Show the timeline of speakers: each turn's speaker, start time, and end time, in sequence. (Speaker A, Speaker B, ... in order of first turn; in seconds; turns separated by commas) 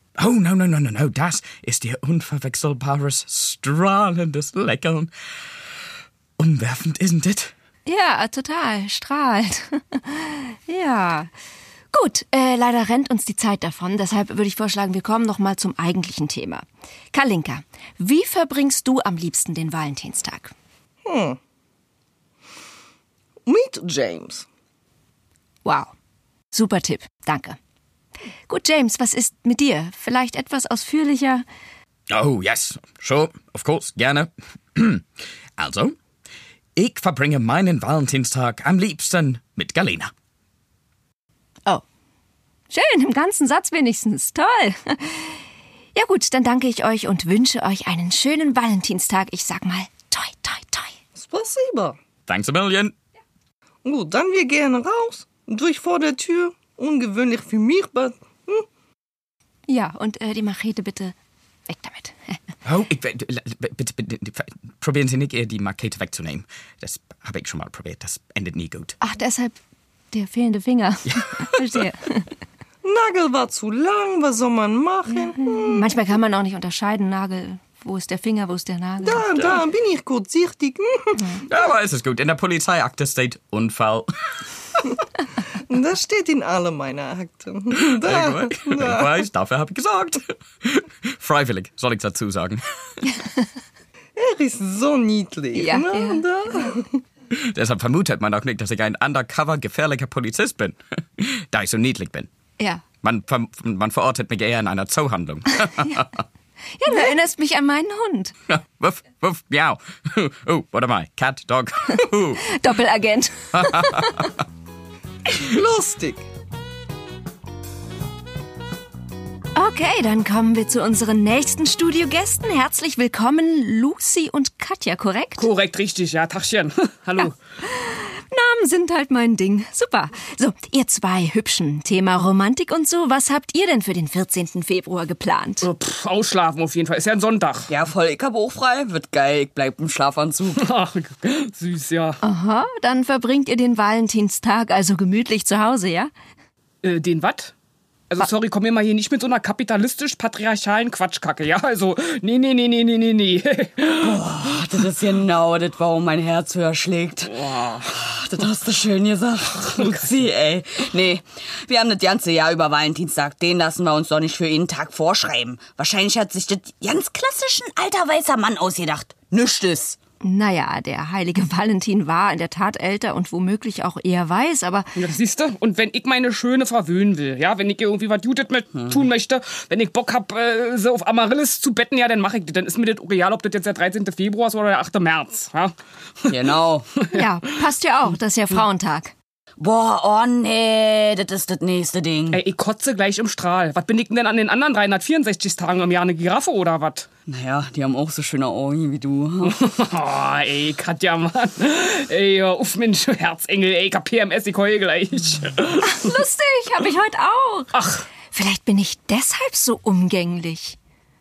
Speaker A: 0.2-5.1, Speaker A: 6.4-7.5, Speaker B: 7.8-11.3, Speaker B: 11.9-20.5, Speaker C: 21.0-21.4, Speaker C: 23.4-24.4, Speaker B: 25.6-25.9, Speaker B: 26.5-27.6, Speaker B: 28.5-31.4, Speaker A: 32.1-35.0, Speaker A: 35.6-36.0, Speaker A: 36.8-40.1, Speaker B: 42.7-45.4, Speaker B: 45.9-50.9, Speaker C: 51.1-52.0, Speaker A: 52.3-52.9, Speaker C: 53.8-58.6, Speaker B: 59.7-61.1, Speaker B: 61.7-62.3, Speaker A: 62.6-68.9, Speaker B: 69.0-69.5, Speaker B: 70.1-72.3, Speaker A: 71.1-71.5, Speaker C: 72.8-75.9, Speaker B: 75.2-79.3, Speaker C: 79.0-81.3, Speaker A: 81.4-84.1, Speaker C: 85.7-89.2, Speaker A: 88.0-92.6, Speaker C: 94.2-97.0, Speaker B: 95.5-96.2, Speaker A: 97.3-102.3, Speaker A: 103.0-106.1, Speaker B: 106.8-108.3, Speaker A: 108.5-112.4, Speaker B: 112.4-114.2, Speaker A: 113.5-114.3, Speaker C: 115.3-116.2, Speaker B: 119.5-125.5, Speaker D: 125.4-127.3, Speaker B: 127.2-135.7, Speaker D: 135.6-137.8, Speaker E: 137.8-138.6, Speaker E: 139.1-140.2, Speaker D: 140.4-142.2, Speaker B: 142.2-146.1, Speaker D: 146.8-147.5, Speaker D: 148.1-155.3, Speaker E: 154.0-157.8, Speaker D: 157.2-158.6, Speaker E: 158.3-169.9, Speaker D: 159.5-160.4, Speaker B: 170.2-174.9, Speaker D: 174.9-187.2, Speaker E: 186.3-186.8, Speaker B: 187.1-189.1, Speaker E: 189.6-192.4, Speaker D: 192.3-197.1, Speaker E: 197.3-199.3, Speaker D: 199.4-206.1, Speaker B: 205.8-207.7, Speaker D: 207.7-208.0, Speaker B: 208.3-210.8